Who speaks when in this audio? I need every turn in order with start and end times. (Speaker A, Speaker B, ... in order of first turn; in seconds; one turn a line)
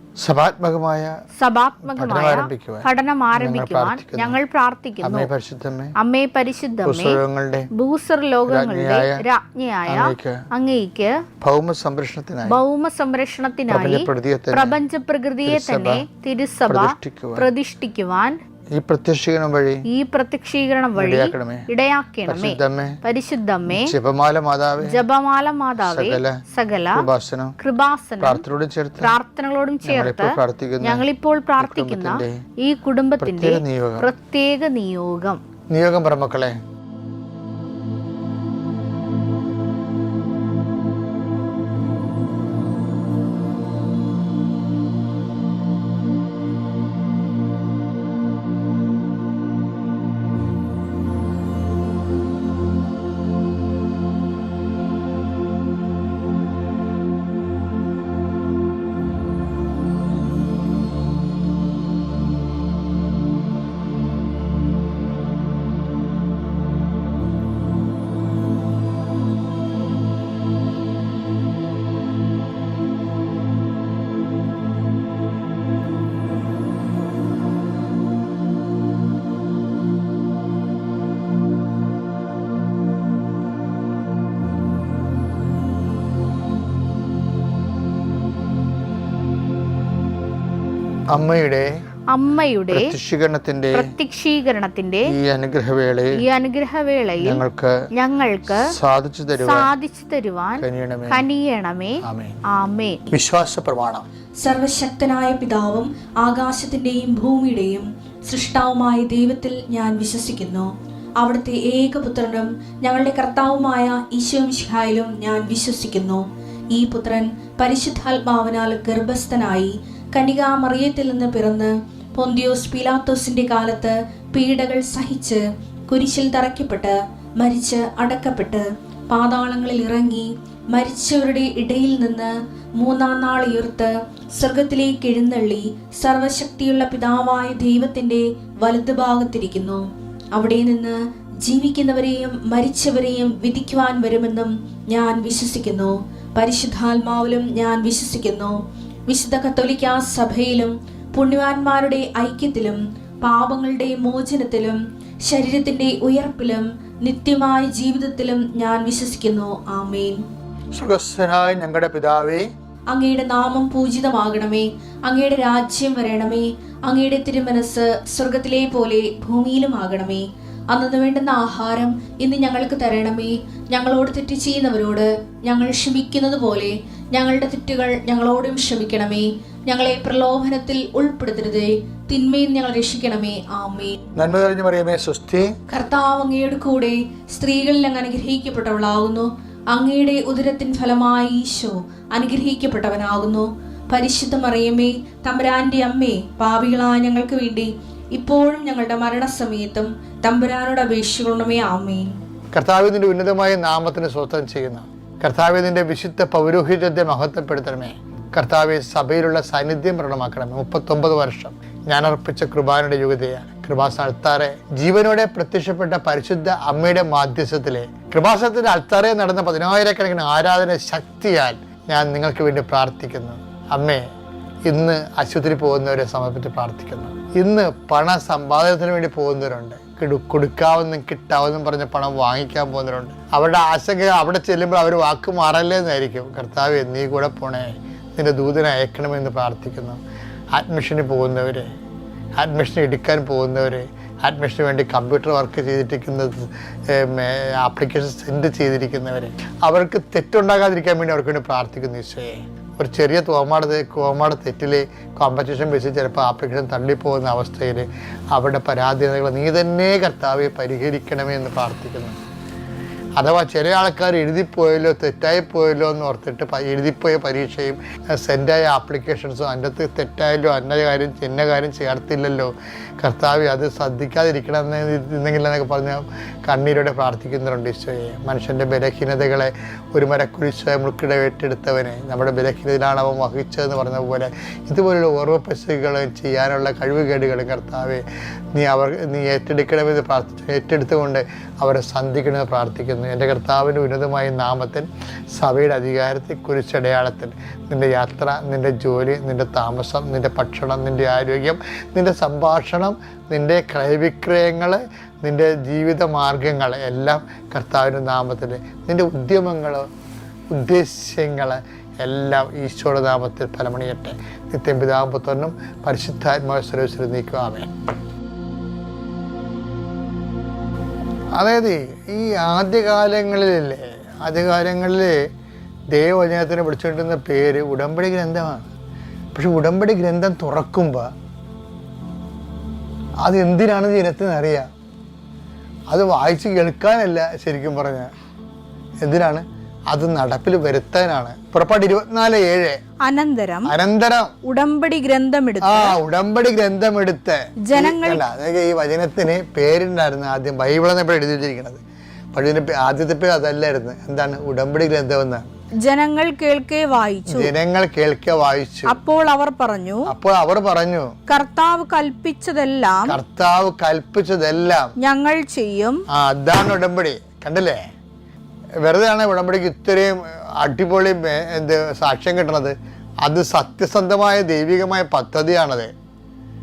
Speaker A: 0.2-1.1
Speaker B: 1.4-5.3
Speaker A: 1.9-4.4
Speaker A: 5.0-5.9
Speaker B: 6.0-7.2
Speaker A: 6.8-7.7
Speaker B: 7.7-11.2
Speaker A: 8.5-9.2
Speaker A: 9.8-10.4
Speaker A: 11.4-12.6
Speaker B: 12.4-18.4
Speaker A: 13.7-14.8
Speaker A: 15.4-16.1
Speaker A: 16.7-17.5
Speaker A: 18.7-19.8
Speaker B: 19.9-23.9
Speaker A: 20.9-21.6
Speaker A: 22.2-23.0
Speaker A: 23.7-25.0
Speaker B: 24.8-27.1
Speaker A: 25.8-26.4
Speaker A: 26.9-27.6
Speaker B: 27.6-28.4
Speaker A: 28.2-29.2
Speaker B: 29.0-35.4
Speaker A: 29.8-31.1
Speaker A: 31.6-32.4
Speaker A: 33.2-34.1
Speaker A: 35.7-36.5
Speaker A: 91.1-91.7
Speaker B: 92.1-92.9
Speaker A: 92.7-93.9
Speaker B: 93.7-95.1
Speaker A: 95.0-96.2
Speaker B: 96.2-97.4
Speaker A: 97.2-97.8
Speaker B: 97.9-98.7
Speaker A: 98.5-99.7
Speaker B: 99.3-103.0
Speaker A: 100.6-101.2
Speaker A: 102.0-102.4
Speaker A: 103.1-104.0
Speaker C: 104.4-139.8
Speaker C: 140.3-160.2
Speaker A: 160.7-162.5
Speaker C: 162.9-184.0
Speaker A: 184.2-185.5
Speaker C: 185.7-202.2
Speaker A: 202.5-224.0
Speaker A: 224.6-240.0
Speaker A: 240.5-241.7
Speaker A: 242.4-262.2
Speaker A: 263.2-288.0
Speaker A: 288.6-309.9
Speaker A: 310.5-317.7
Speaker A: 321.4-325.1
Speaker A: 325.9-328.7
Speaker A: 329.3-331.1
Speaker A: 333.2-334.7
Speaker A: 335.9-338.1
Speaker A: 339.0-342.8
Speaker C: 343.0-343.7
Speaker A: 343.6-344.3
Speaker C: 344.4-346.0
Speaker A: 345.6-351.8
Speaker C: 347.7-348.2
Speaker A: 352.3-355.4
Speaker C: 355.8-357.5
Speaker A: 357.2-359.0
Speaker C: 358.9-360.1
Speaker A: 360.1-361.1
Speaker C: 361.3-363.1
Speaker B: 362.1-362.4
Speaker A: 363.0-364.9
Speaker C: 365.0-366.0
Speaker A: 366.1-367.8
Speaker A: 368.8-375.9